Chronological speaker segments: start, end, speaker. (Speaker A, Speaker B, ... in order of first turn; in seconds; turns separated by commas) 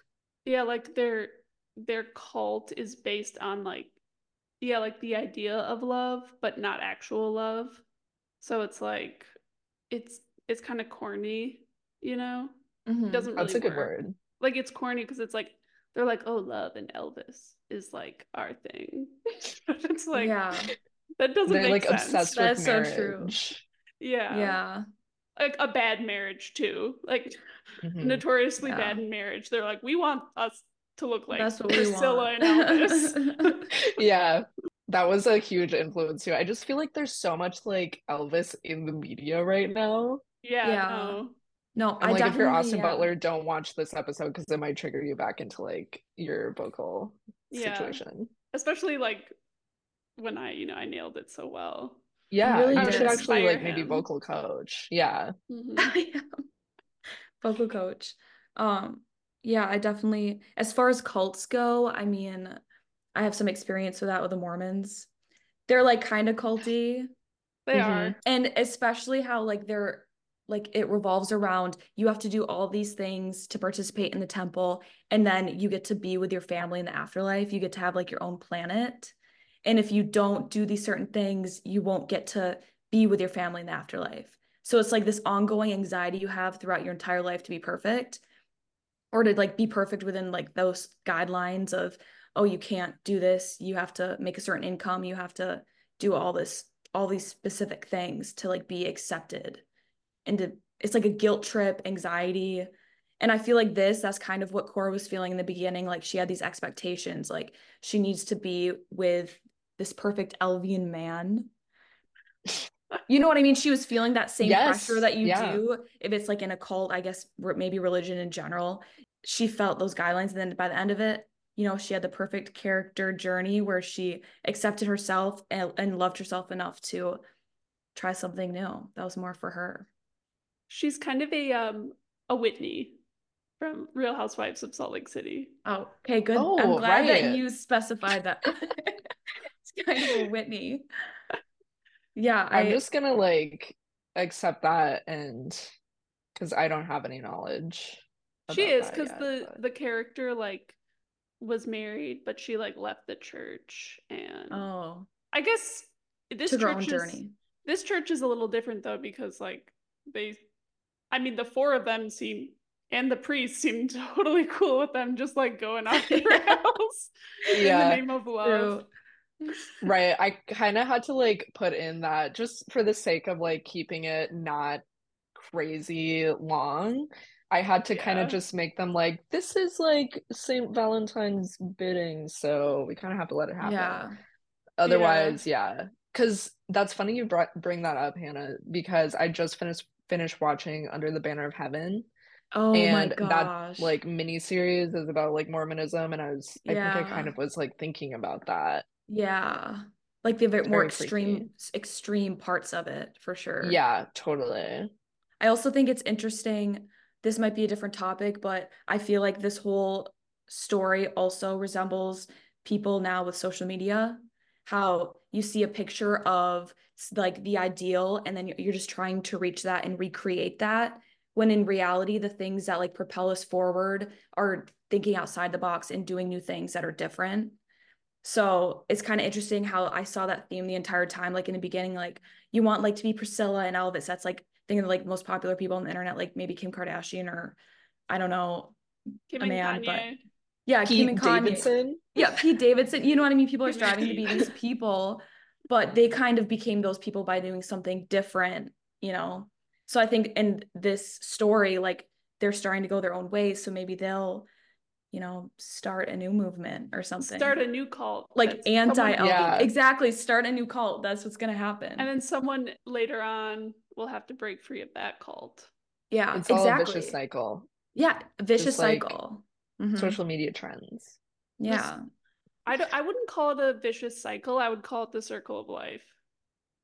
Speaker A: 0.5-3.9, Speaker A: 4.6-7.8, Speaker A: 8.4-9.3, Speaker A: 9.9-12.5, Speaker B: 12.8-13.3, Speaker A: 13.1-20.4, Speaker C: 13.3-14.2, Speaker B: 20.1-20.7, Speaker A: 21.2-22.3, Speaker C: 21.5-23.6, Speaker B: 22.2-23.3, Speaker A: 24.0-24.6, Speaker B: 24.3-24.8, Speaker A: 25.4-27.4, Speaker C: 27.8-28.2, Speaker A: 28.0-33.7, Speaker B: 28.6-29.0, Speaker B: 31.3-33.6, Speaker C: 33.8-40.2, Speaker A: 40.4-41.4, Speaker B: 40.6-41.2, Speaker B: 41.8-43.1, Speaker C: 42.0-48.3, Speaker A: 47.5-48.0, Speaker A: 48.5-49.3, Speaker A: 50.2-52.0, Speaker C: 52.3-55.3, Speaker B: 52.4-53.3, Speaker A: 52.7-54.0, Speaker A: 55.5-55.9, Speaker B: 55.8-56.4, Speaker B: 57.4-62.6, Speaker B: 63.1-65.1, Speaker B: 65.7-67.1, Speaker A: 67.7-68.2, Speaker C: 67.7-68.2, Speaker B: 68.2-88.2, Speaker B: 89.1-99.6, Speaker B: 100.2-111.5, Speaker B: 113.1-127.2, Speaker C: 114.4-115.6, Speaker B: 127.9-129.9, Speaker A: 130.7-133.0, Speaker A: 133.6-135.5, Speaker B: 135.7-139.1, Speaker C: 136.3-137.4, Speaker B: 139.6-140.8, Speaker B: 142.1-142.8, Speaker C: 142.5-145.7, Speaker C: 146.3-149.6, Speaker A: 148.5-150.8, Speaker A: 151.4-154.7, Speaker B: 154.5-155.1, Speaker A: 155.3-160.4, Speaker B: 156.4-157.3, Speaker A: 161.1-168.8, Speaker B: 166.1-166.5, Speaker C: 167.5-168.0, Speaker B: 168.4-168.9, Speaker C: 169.8-174.8, Speaker C: 175.3-184.0, Speaker A: 177.9-178.4, Speaker B: 183.6-184.2, Speaker C: 184.8-192.1, Speaker A: 184.9-185.4, Speaker B: 192.5-194.0, Speaker C: 192.7-198.8, Speaker B: 196.6-197.3, Speaker B: 199.1-203.8, Speaker C: 200.7-201.5, Speaker C: 203.6-204.9, Speaker B: 205.4-227.6, Speaker B: 228.2-237.6, Speaker B: 238.1-238.8, Speaker A: 239.3-240.2, Speaker B: 239.4-240.1, Speaker B: 240.7-254.5, Speaker C: 240.8-242.0, Speaker A: 243.7-244.5, Speaker B: 255.1-257.6, Speaker A: 257.2-259.2, Speaker B: 258.4-262.1, Speaker C: 259.2-259.7, Speaker A: 262.0-265.7, Speaker B: 266.1-267.2, Speaker C: 266.3-267.7, Speaker B: 267.9-270.2, Speaker C: 268.6-269.2, Speaker C: 269.9-271.2, Speaker B: 271.6-272.0, Speaker A: 272.6-276.1